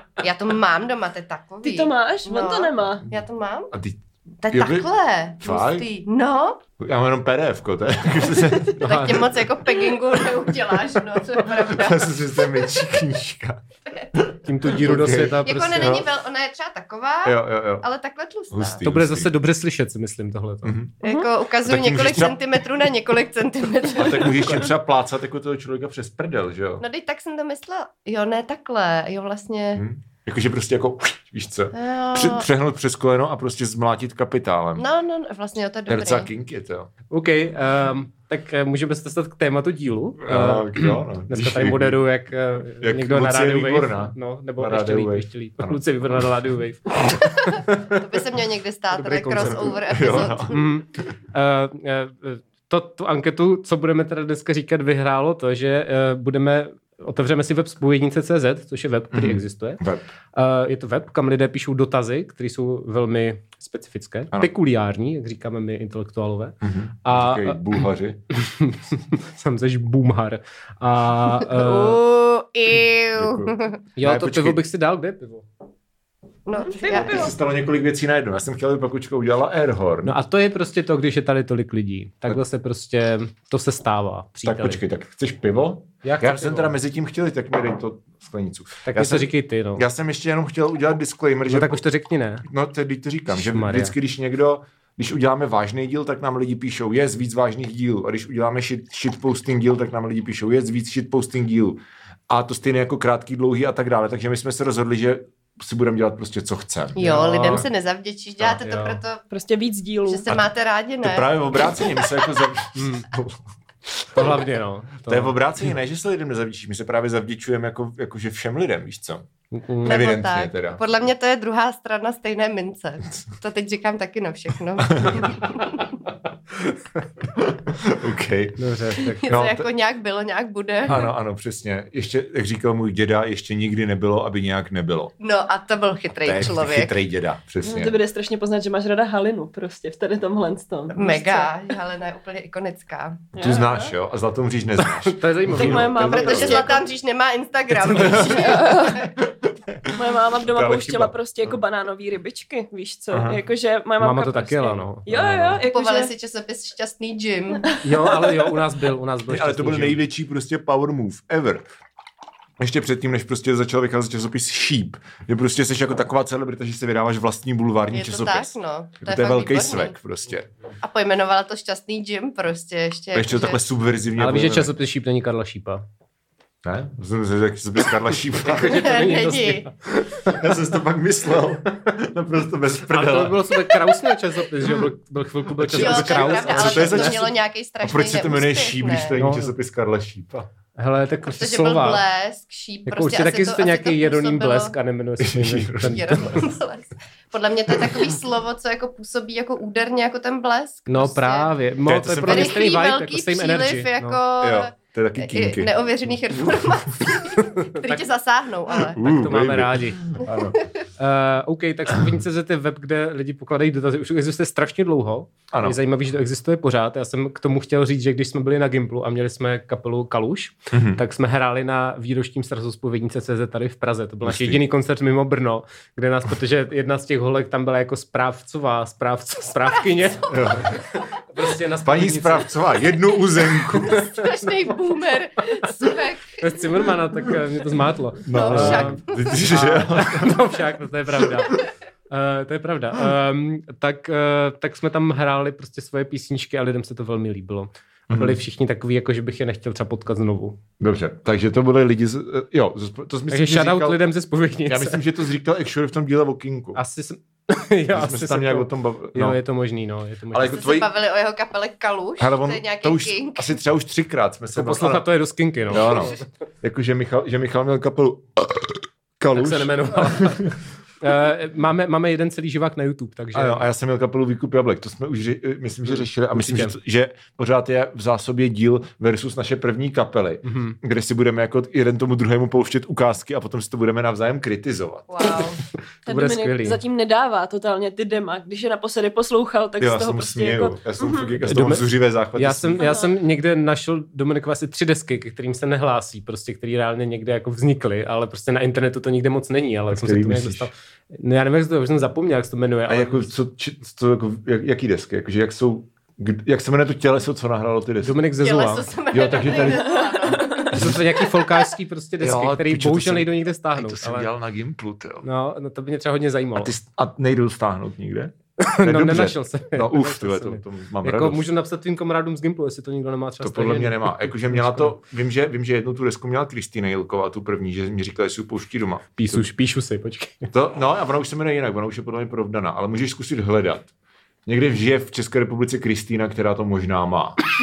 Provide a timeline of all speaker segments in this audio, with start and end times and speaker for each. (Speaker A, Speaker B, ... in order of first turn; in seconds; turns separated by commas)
Speaker A: 0.2-3.7, Speaker B: 1.6-3.0, Speaker C: 3.1-5.9, Speaker A: 4.4-6.6, Speaker C: 6.8-9.5, Speaker A: 8.4-12.1, Speaker D: 8.9-9.2, Speaker C: 10.2-13.6, Speaker C: 14.1-16.1, Speaker D: 14.4-16.0, Speaker A: 14.8-18.8, Speaker C: 17.2-17.9, Speaker C: 18.5-19.3, Speaker D: 18.8-20.8, Speaker C: 20.6-20.9, Speaker A: 21.0-24.6, Speaker B: 21.0-21.3, Speaker C: 21.6-22.4, Speaker C: 23.9-26.8, Speaker A: 26.8-29.8, Speaker C: 29.7-34.8, Speaker A: 31.7-32.5, Speaker A: 34.8-36.3, Speaker C: 35.9-36.9, Speaker D: 37.1-48.0, Speaker C: 40.2-42.0, Speaker C: 42.7-46.3, Speaker A: 47.6-50.6, Speaker D: 48.9-59.8, Speaker C: 49.4-50.6, Speaker C: 59.1-60.0, Speaker D: 60.3-67.8, Speaker C: 66.6-68.2, Speaker D: 68.3-72.0, Speaker A: 71.5-73.8, Speaker C: 73.1-74.6, Speaker D: 74.0-75.4, Speaker A: 76.5-77.3, Speaker B: 76.6-77.3, Speaker C: 76.9-80.2, Speaker D: 80.0-84.8, Speaker C: 84.4-91.8, Speaker D: 86.0-86.7, Speaker D: 88.8-89.8, Speaker D: 91.5-92.4, Speaker C: 92.4-107.0, Speaker D: 93.3-93.9, Speaker A: 107.0-109.2, Speaker D: 107.0-107.7, Speaker D: 108.6-109.0, Speaker B: 109.3-110.3, Speaker A: 110.0-111.8, Speaker C: 111.0-113.4, Speaker D: 112.7-113.1, Speaker D: 114.1-115.3, Speaker C: 115.1-119.2, Speaker D: 119.5-120.0, Speaker C: 119.8-120.8, Speaker A: 119.8-125.9, Speaker C: 124.8-125.3, Speaker C: 127.3-128.6, Speaker D: 128.6-129.3, Speaker C: 129.2-129.7, Speaker A: 129.2-131.1, Speaker C: 130.8-135.1, Speaker A: 135.2-136.9, Speaker C: 136.2-138.0, Speaker B: 137.6-141.5, Speaker A: 140.9-143.3, Speaker B: 143.3-143.9, Speaker C: 143.4-146.7, Speaker D: 144.8-146.5, Speaker B: 145.6-146.8, Speaker A: 146.0-149.1, Speaker C: 147.8-151.1, Speaker D: 147.8-148.4, Speaker B: 148.2-149.1, Speaker B: 149.9-156.1, Speaker C: 153.1-153.4, Speaker D: 154.0-155.6, Speaker A: 155.7-157.8, Speaker D: 157.8-160.0, Speaker C: 159.3-161.6, Speaker C: 162.6-170.5, Speaker A: 167.9-169.9, Speaker A: 170.8-173.6, Speaker C: 173.1-174.7, Speaker D: 174.2-175.8, Speaker C: 176.6-178.9, Speaker D: 178.4-180.4, Speaker A: 178.5-179.7, Speaker C: 180.2-183.8, Speaker D: 182.9-187.3, Speaker C: 185.5-190.5, Speaker A: 185.7-189.1, Speaker D: 189.2-189.5, Speaker D: 190.8-192.0, Speaker A: 191.3-194.7, Speaker D: 192.8-196.4, Speaker C: 195.2-196.4, Speaker A: 195.8-201.5, Speaker D: 200.9-204.2, Speaker C: 201.8-202.6, Speaker A: 202.2-209.0, Speaker C: 204.4-205.7, Speaker D: 207.4-208.0, Speaker C: 208.8-210.6, Speaker D: 209.0-210.0, Speaker D: 211.0-232.6, Speaker C: 215.5-215.8, Speaker C: 220.7-221.0, Speaker C: 224.2-224.6, Speaker C: 230.2-230.8, Speaker C: 231.8-234.1, Speaker D: 233.7-234.0, Speaker A: 233.8-236.6, Speaker D: 236.4-250.6, Speaker C: 238.2-240.5, Speaker A: 238.3-239.4, Speaker C: 241.2-241.5, Speaker C: 248.1-248.4, Speaker C: 250.8-254.0, Speaker D: 253.3-255.0, Speaker C: 254.7-256.8, Speaker D: 256.7-260.6, Speaker C: 257.9-259.4, Speaker C: 260.3-260.9, Speaker A: 260.4-263.5, Speaker C: 262.2-265.0, Speaker D: 264.5-266.2, Speaker C: 265.7-270.5, Speaker D: 269.3-273.6, Speaker C: 273.3-285.4, Speaker D: 275.9-276.8, Speaker D: 280.4-280.8, Speaker A: 285.1-285.6, Speaker B: 286.1-291.3, Speaker D: 286.1-286.8, Speaker C: 289.8-292.9, Speaker D: 291.4-303.3, Speaker B: 292.8-293.1, Speaker C: 299.9-300.7, Speaker C: 302.9-308.2, Speaker D: 308.0-308.9, Speaker A: 308.4-310.8, Speaker C: 309.1-310.0, Speaker B: 309.6-310.7, Speaker D: 310.6-314.3, Speaker C: 310.7-311.0, Speaker C: 312.2-315.2, Speaker D: 315.2-316.7, Speaker C: 316.6-321.4, Speaker D: 318.6-324.9, Speaker C: 323.4-329.4, Speaker D: 329.2-330.5, Speaker C: 330.5-333.9, Speaker C: 334.4-337.4